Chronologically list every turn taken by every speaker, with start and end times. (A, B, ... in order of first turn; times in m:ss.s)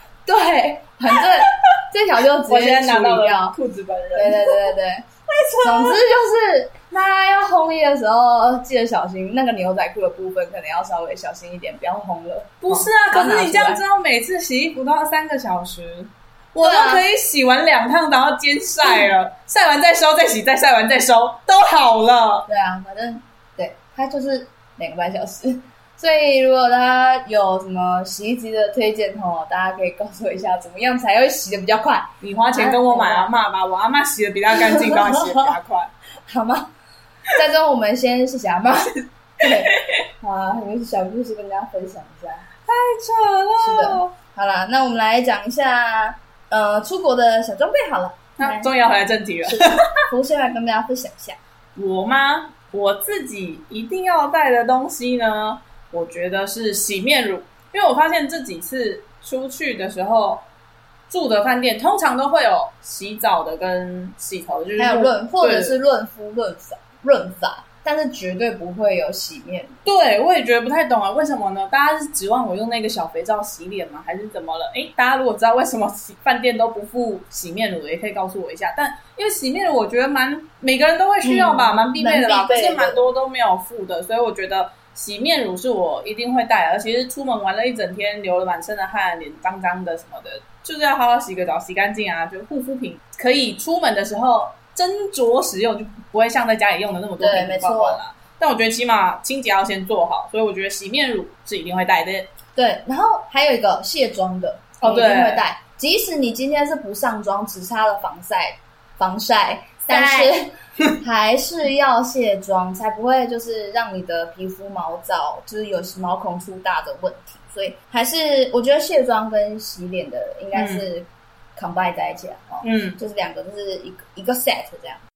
0:00.2-0:03.5 A
0:02.5-0:04.7 B
0:04.1-0:05.0 A
0:05.3-0:06.0 B
0:05.6-0:13.8 A
0:12.6-0:22.5 B
0:16.6-0:17.0 A
0:22.5-0:33.3 A
0:32.2-0:35.9 B
0:34.5-0:35.5 A
0:36.2-0:36.7 A
0:37.3-0:42.5 A
0:39.7-0:40.0 B
0:42.7-0:44.1 B
0:43.6-0:48.7 A
0:48.4-0:50.1 B
0:49.4-0:51.4 A
0:51.8-1:00.4 B
1:01.1-1:05.7 B
1:04.8-1:09.8 A
1:09.8-1:42.3 B
1:21.2-1:23.0 A
1:37.2-1:38.0 A
1:42.5-2:05.0 A
1:44.8-1:45.5 B
1:49.9-1:50.3 B
2:00.5-2:00.9 B
2:02.6-2:03.0 B